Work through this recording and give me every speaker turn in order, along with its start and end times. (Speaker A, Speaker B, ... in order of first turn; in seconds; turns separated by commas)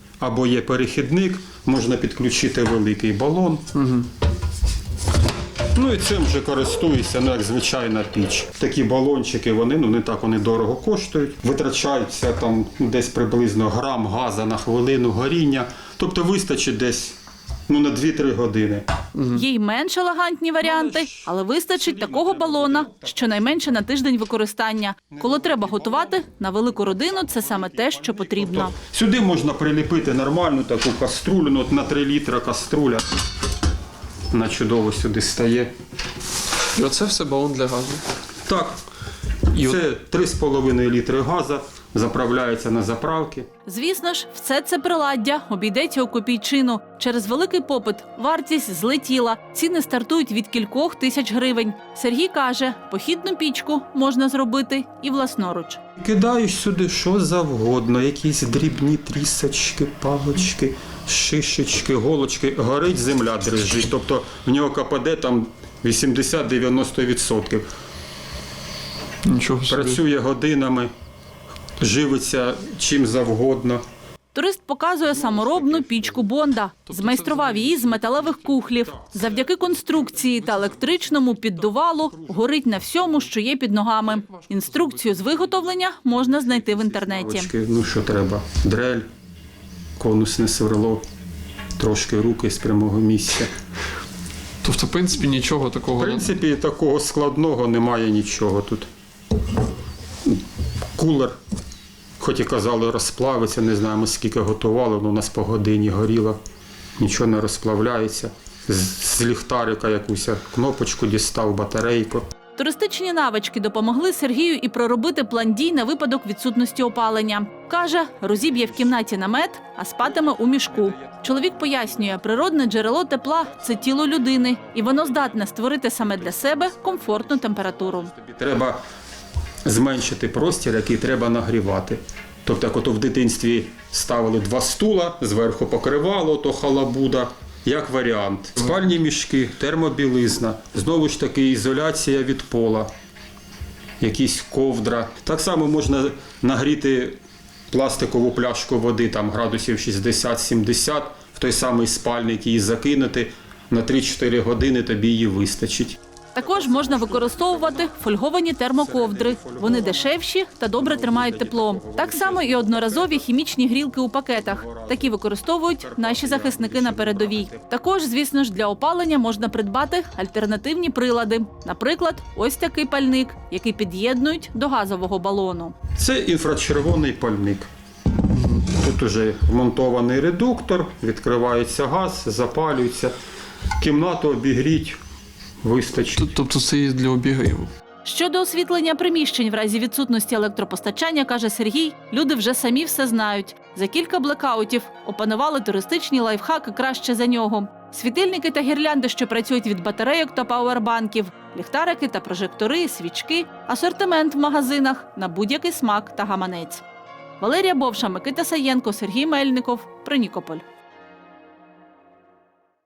Speaker A: 0.2-3.9, Speaker A: 5.7-17.2, Speaker A: 17.7-18.8, Speaker B: 19.3-28.7, Speaker A: 20.6-23.6, Speaker A: 25.1-33.1, Speaker A: 34.3-35.7, Speaker C: 36.7-38.0, Speaker A: 38.5-38.8, Speaker A: 39.6-43.5, Speaker B: 43.7-55.8, Speaker A: 56.0-67.7, Speaker C: 69.2-70.0, Speaker A: 69.7-70.9, Speaker A: 71.8-73.8, Speaker B: 74.3-87.5, Speaker A: 75.1-76.3, Speaker C: 76.9-78.1, Speaker A: 78.8-82.5, Speaker A: 86.3-89.1, Speaker A: 90.0-91.0, Speaker A: 91.8-93.5, Speaker C: 94.6-96.3, Speaker A: 96.0-98.9, Speaker A: 101.0-101.4, Speaker A: 102.2-106.4, Speaker A: 107.0-112.2, Speaker B: 112.6-128.1, Speaker A: 118.2-119.1, Speaker A: 120.0-122.2, Speaker A: 123.4-128.8, Speaker A: 129.6-142.9, Speaker A: 144.0-147.2, Speaker A: 147.7-158.0, Speaker B: 156.3-175.7, Speaker A: 158.8-160.1, Speaker A: 160.8-163.2, Speaker A: 164.4-165.2, Speaker A: 165.7-167.7, Speaker A: 175.9-177.7, Speaker A: 178.5-183.1, Speaker A: 183.8-185.0, Speaker A: 185.6-186.3, Speaker C: 186.2-187.7, Speaker B: 188.0-206.8, Speaker B: 207.4-210.6